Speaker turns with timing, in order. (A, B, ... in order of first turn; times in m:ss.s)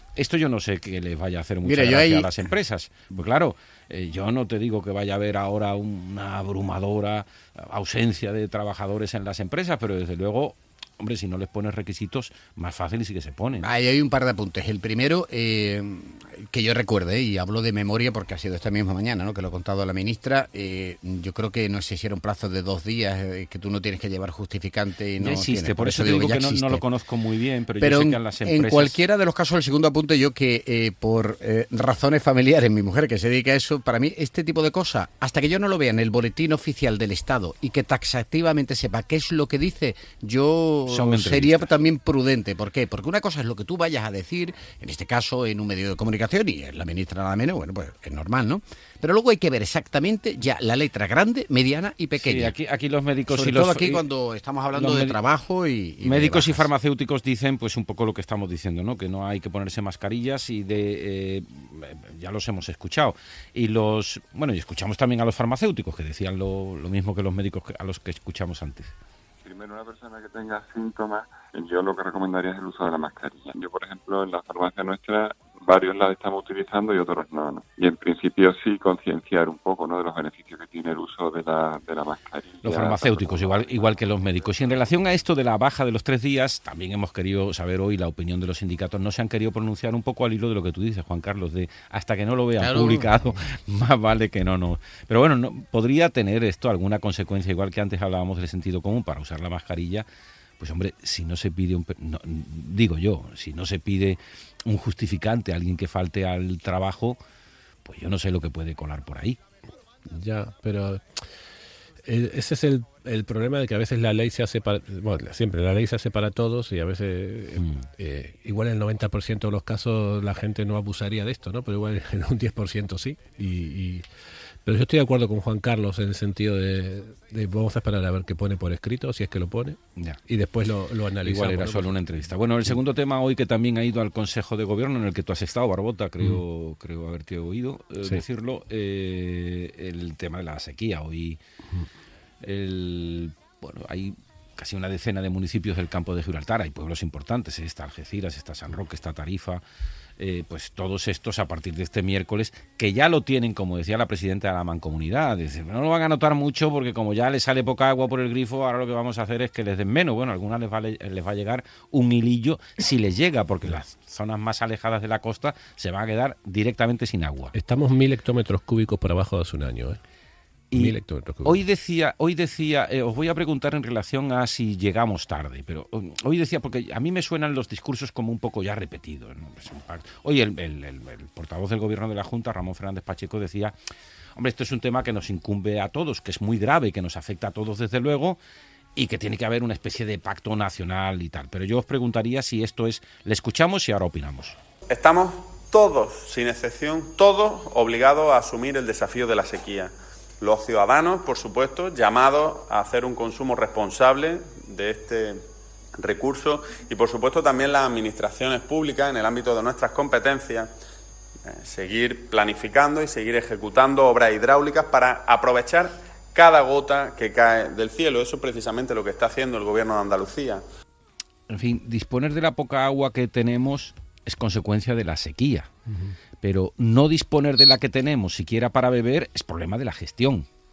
0:00.2-0:13.7 A
0:01.6-0:02.5 B
0:13.6-0:26.8 B
0:25.2-0:29.0 A
0:27.8-0:52.5 B
0:40.9-0:41.7 A
0:52.2-0:54.0 A
0:53.3-0:56.7 B
0:54.7-0:55.2 A
0:56.0-1:08.9 A
1:09.4-1:24.8 C
1:22.6-1:40.1 A
1:32.6-1:33.1 B
1:40.6-1:47.2 A
1:47.8-1:49.4 A
1:50.1-1:51.3 D
1:52.1-2:04.0 D
2:04.6-2:12.0 D
2:11.2-2:21.4 A
2:22.4-2:29.6 A
2:30.2-2:47.5 A
2:47.5-2:50.0 D
2:50.7-3:03.7 A
2:50.8-2:51.6 D
3:04.4-3:08.4 A
3:09.0-3:14.6 A
3:14.9-3:25.4 E
3:26.0-3:30.7 E
3:31.4-3:40.6 E
3:41.5-3:45.7 A
3:45.9-3:46.1 D
3:46.4-3:50.4 A